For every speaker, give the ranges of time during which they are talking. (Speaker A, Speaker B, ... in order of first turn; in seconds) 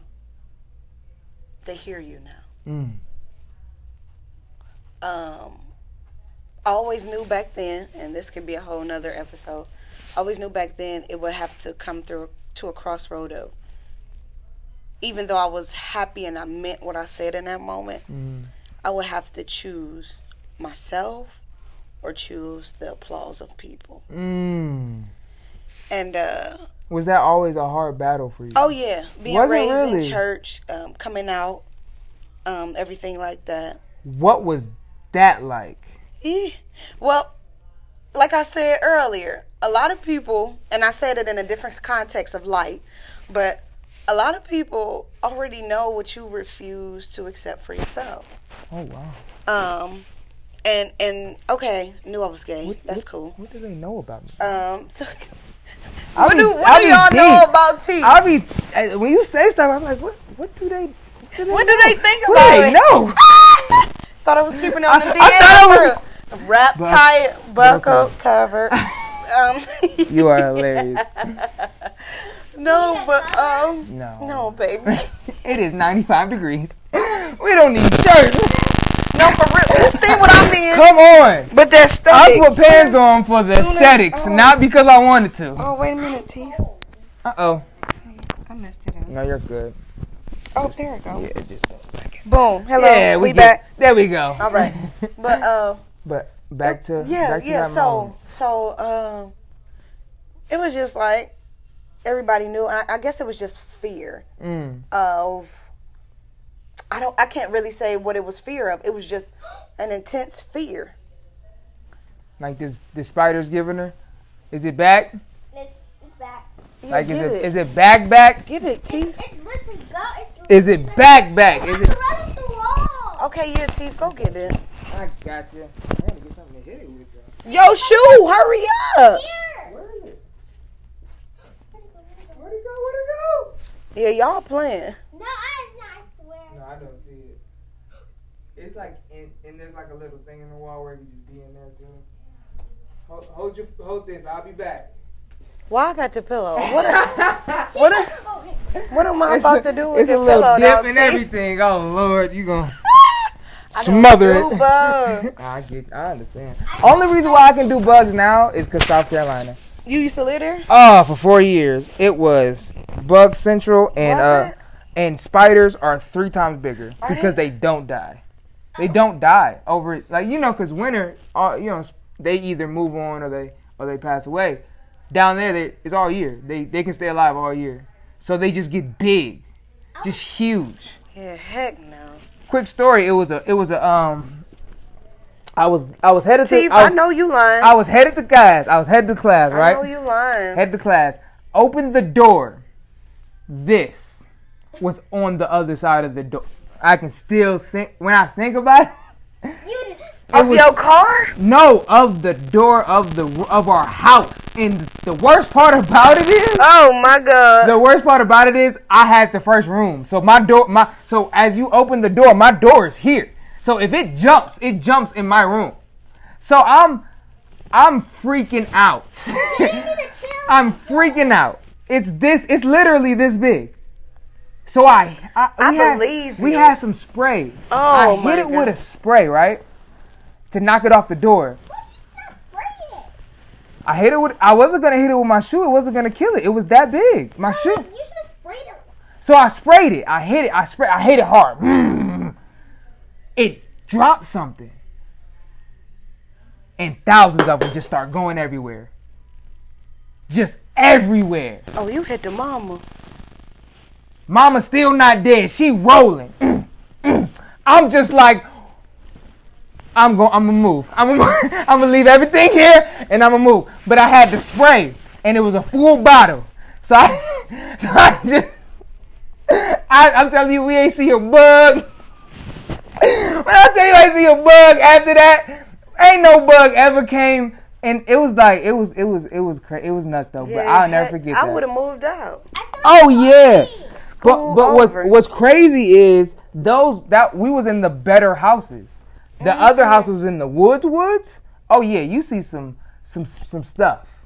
Speaker A: 1.6-2.4, 5.0-5.7, 6.7-13.5, 15.0-18.0, 18.8-21.3, 22.0-24.0, 25.9-26.6, 28.5-31.6, 32.4-33.8, 36.2-37.3, 38.1-48.3, 49.5-50.0, 50.6-53.3, 54.4-55.3, 56.1-58.2, 61.5-63.6, 64.2-71.9, 72.5-75.5, 79.1-80.9, 81.5-84.6, 85.6-86.6, 87.9-89.1, 90.5-91.3, 92.2-93.6, 94.4-95.8, 96.6-99.3, 100.5-101.3, 102.0-104.2, 104.9-105.7, 106.9-110.9, 116.8-117.5, 118.5-119.2, 123.2-124.6, 127.4-129.2, 133.9-135.0, 145.7-148.1, 148.9-151.2, 153.7-155.4, 159.8-160.7, 164.0-164.6, 167.0-167.4, 181.1-182.2, 186.4-187.7, 189.5-190.6, 200.3-201.3, 206.6-207.8, 225.6-226.8, 227.7-228.7, 251.7-252.8, 280.4-282.4, 284.0-285.1, 289.4-290.1
Speaker B: 2.6-3.0, 18.1-18.5, 24.1-25.1, 26.9-28.7, 29.2-30.2, 34.0-35.9, 48.7-49.2, 52.6-54.5, 56.1-57.5, 58.0-63.2, 64.5-66.0, 66.7-68.1, 68.7-69.1, 70.1-71.3, 73.9-81.5, 82.1-85.7, 87.2-87.6, 89.1-89.8, 90.6-95.4, 96.0-98.2, 104.4-104.8, 112.4-113.9, 114.5-115.2, 116.9-118.4, 120.5-121.9, 124.0-127.3, 129.6-130.2, 132.3-133.5, 136.5-137.4, 138.6-142.0, 143.1-144.9, 146.6-147.7, 149.2-152.8, 153.7-159.6, 160.7-168.2, 168.8-179.4, 180.0-181.0, 182.5-184.4, 185.6-187.0, 187.6-189.8, 190.5-192.6, 193.5-194.2, 194.8-198.9, 200.3-200.7, 201.4-206.7, 207.6-215.8, 216.4-217.1, 217.7-219.9, 220.5-223.7, 224.7-229.6, 230.5-231.6, 233.8-237.8, 239.2-242.3, 243.3-244.8, 246.8-248.9, 250.3-251.6, 254.3-258.5, 259.9-268.5, 269.5-271.9, 273.0-281.6, 282.8-283.7, 284.2-294.1
Speaker C: 72.6-73.8, 85.9-86.9, 115.5-116.5, 118.9-123.3, 127.4-128.3, 129.1-129.7, 131.7-132.4, 135.1-136.6, 147.5-148.9, 156.7-158.1, 179.9-180.3, 199.6-200.1, 219.3-221.4, 231.7-233.1, 237.4-238.9, 282.5-284.0